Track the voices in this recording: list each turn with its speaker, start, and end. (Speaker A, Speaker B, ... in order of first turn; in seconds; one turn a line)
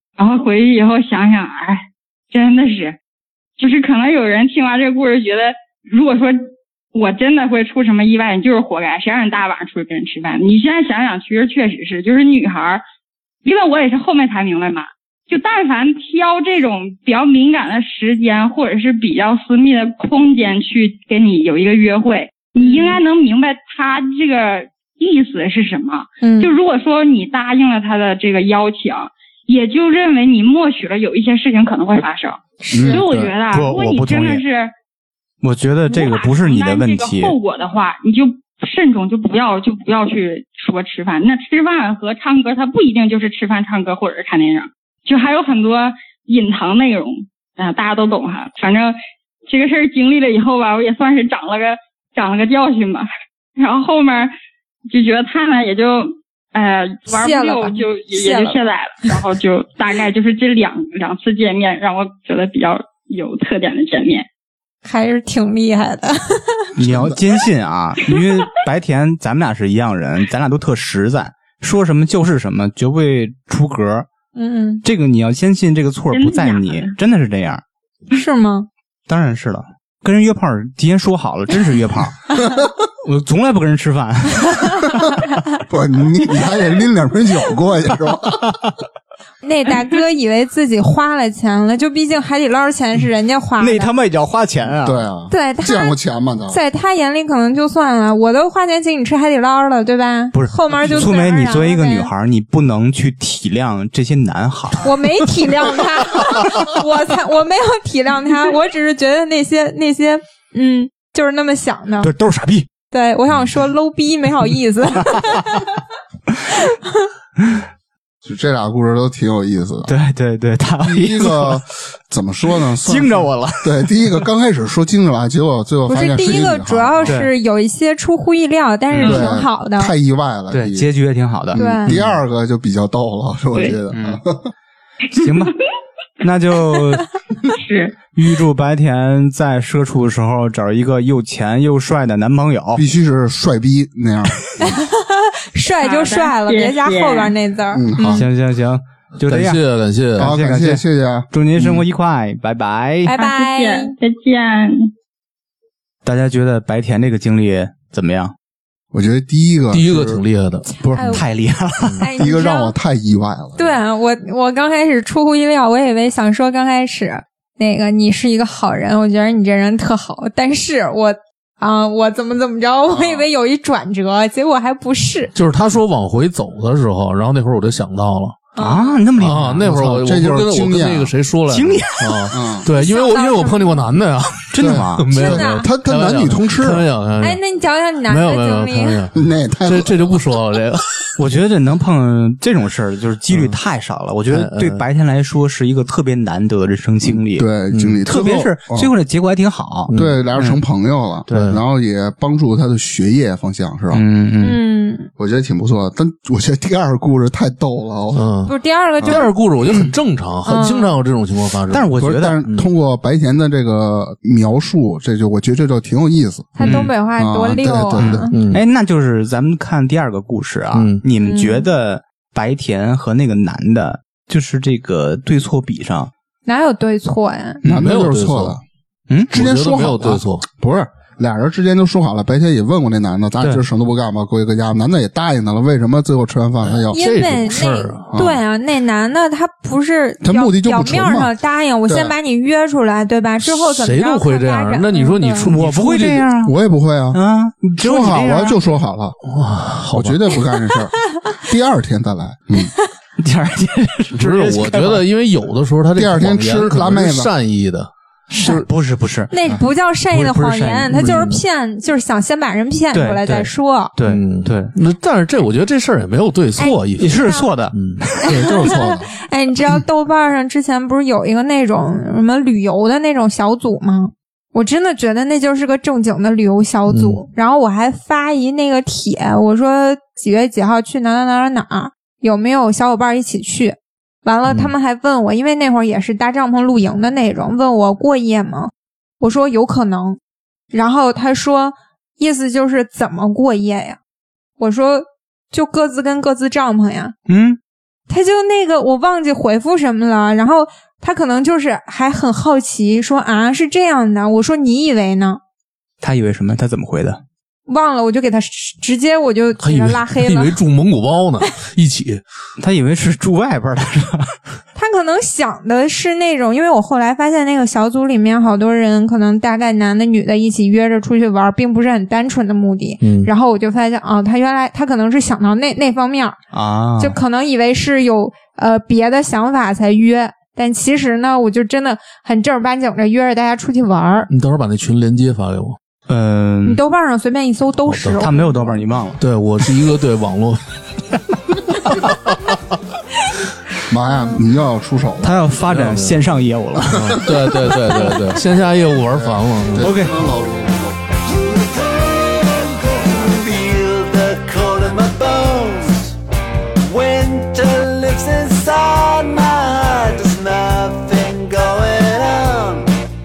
Speaker A: 0.2-3.0
Speaker A: 3.6-12.8
Speaker A: 13.4-34.7
Speaker B: 22.6-23.0
Speaker B: 26.2-26.5
Speaker B: 32.6-33.2
Speaker C: 32.7-33.3
Speaker D: 33.5-34.4
Speaker D: 35.4-37.4
Speaker A: 35.9-49.0
Speaker A: 49.5-54.3
Speaker A: 54.9-64.3
Speaker B: 57.1-58.6
Speaker B: 64.8-66.7
Speaker C: 66.8-67.2
Speaker D: 66.8-74.1
Speaker B: 74.4-74.8
Speaker D: 74.8-77.6
Speaker A: 76.1-77.0
Speaker B: 78.1-78.7
Speaker D: 79.1-82.2
Speaker D: 83.0-85.0
Speaker C: 85.7-88.4
Speaker D: 86.2-86.7
Speaker D: 88.4-88.7
Speaker B: 89.4-93.9
Speaker D: 93.6-95.1
Speaker C: 94.8-96.6
Speaker B: 95.3-95.9
Speaker B: 96.5-102.1
Speaker D: 100.3-105.0
Speaker B: 104.8-112.1
Speaker D: 106.2-106.6
Speaker D: 112.0-112.7
Speaker B: 112.9-115.8
Speaker D: 115.0-115.6
Speaker B: 116.7-117.1
Speaker C: 118.2-119.9
Speaker D: 119.9-121.6
Speaker C: 120.8-127.2
Speaker D: 122.8-124.1
Speaker B: 125.9-129.9
Speaker D: 127.0-127.3
Speaker D: 128.9-129.3
Speaker C: 129.0-130.9
Speaker D: 130.5-132.2
Speaker C: 131.5-134.5
Speaker B: 131.6-131.9
Speaker D: 133.9-134.2
Speaker D: 135.1-135.6
Speaker A: 135.2-135.5
Speaker D: 136.2-137.1
Speaker A: 137.6-138.0
Speaker D: 138.1-142.8
Speaker C: 142.8-144.8
Speaker B: 144.6-148.3
Speaker A: 145.8-147.3
Speaker C: 147.7-148.3
Speaker D: 148.1-149.6
Speaker E: 149.2-150.3
Speaker D: 150.2-153.1
Speaker C: 150.2-151.3
Speaker B: 153.1-153.9
Speaker A: 153.2-154.9
Speaker D: 156.0-158.3
Speaker C: 158.9-160.2
Speaker E: 159.7-161.1
Speaker B: 160.9-161.2
Speaker D: 161.0-162.0
Speaker B: 162.0-162.7
Speaker C: 162.2-163.8
Speaker B: 163.6-175.3
Speaker C: 172.9-173.3
Speaker E: 175.3-178.4
Speaker B: 178.6-179.0
Speaker D: 178.6-179.6
Speaker E: 179.2-187.4
Speaker C: 179.4-181.1
Speaker D: 181.5-182.3
Speaker C: 182.3-182.7
Speaker B: 182.7-183.9
Speaker D: 184.5-185.2
Speaker C: 184.6-186.9
Speaker B: 185.1-185.7
Speaker B: 187.2-189.0
Speaker E: 188.1-191.1
Speaker C: 189.1-190.1
Speaker D: 191.2-200.6
Speaker E: 193.3-193.6
Speaker E: 194.3-194.8
Speaker C: 197.3-198.9
Speaker E: 197.7-198.0
Speaker E: 199.9-200.2
Speaker C: 199.9-204.0
Speaker D: 201.3-201.6
Speaker E: 201.3-201.6
Speaker D: 203.9-204.6
Speaker B: 204.4-205.1
Speaker C: 205.2-208.3
Speaker E: 208.1-212.7
Speaker B: 208.5-209.3
Speaker C: 209.0-209.9
Speaker B: 210.5-210.9
Speaker D: 211.7-212.4
Speaker C: 212.0-218.4
Speaker B: 216.6-218.3
Speaker D: 216.6-217.0
Speaker D: 218.0-226.1
Speaker E: 218.3-218.6
Speaker E: 220.7-221.0
Speaker B: 221.2-221.7
Speaker B: 226.5-227.6
Speaker C: 227.6-228.6
Speaker E: 227.6-228.6
Speaker E: 229.3-230.4
Speaker C: 229.3-237.0
Speaker E: 236.6-238.1
Speaker B: 236.9-245.5
Speaker C: 238.1-238.4
Speaker C: 240.2-241.3
Speaker C: 241.9-242.1
Speaker E: 243.4-246.3
Speaker D: 245.4-246.6
Speaker C: 246.4-247.2
Speaker D: 247.1-248.6
Speaker C: 247.8-249.2
Speaker E: 249.2-250.4
Speaker C: 249.9-252.7
Speaker D: 253.2-255.0
Speaker E: 254.2-257.9
Speaker C: 256.0-257.3
Speaker D: 258.3-259.6
Speaker B: 259.3-263.9
Speaker D: 260.1-261.3
Speaker E: 260.9-261.4
Speaker D: 262.9-264.7
Speaker E: 264.1-269.1
Speaker B: 266.6-267.5
Speaker D: 267.0-268.7
Speaker B: 268.2-290.2
Speaker C: 268.8-269.0
Speaker E: 276.9-277.2
Speaker B: 290.7-294.0
Speaker B: 294.6-297.1
Speaker D: 297.3-297.6
Speaker B: 298.1-305.4
Speaker D: 306.0-307.2
Speaker B: 307.7-310.6
Speaker E: 309.6-312.2
Speaker D: 312.6-314.4
Speaker B: 314.8-326.4
Speaker E: 323.0-323.3
Speaker D: 326.5-327.2
Speaker B: 327.0-334.3
Speaker E: 334.3-335.8
Speaker D: 336.1-336.8
Speaker B: 336.6-338.6
Speaker E: 337.9-338.4
Speaker D: 338.2-339.2
Speaker E: 339.2-340.6
Speaker E: 341.9-342.4
Speaker C: 343.9-345.3
Speaker D: 345.2-347.2
Speaker E: 345.7-346.2
Speaker E: 346.9-349.9
Speaker D: 347.7-348.2
Speaker C: 349.1-351.0
Speaker D: 349.8-350.2
Speaker F: 351.4-356.1
Speaker F: 356.9-362.9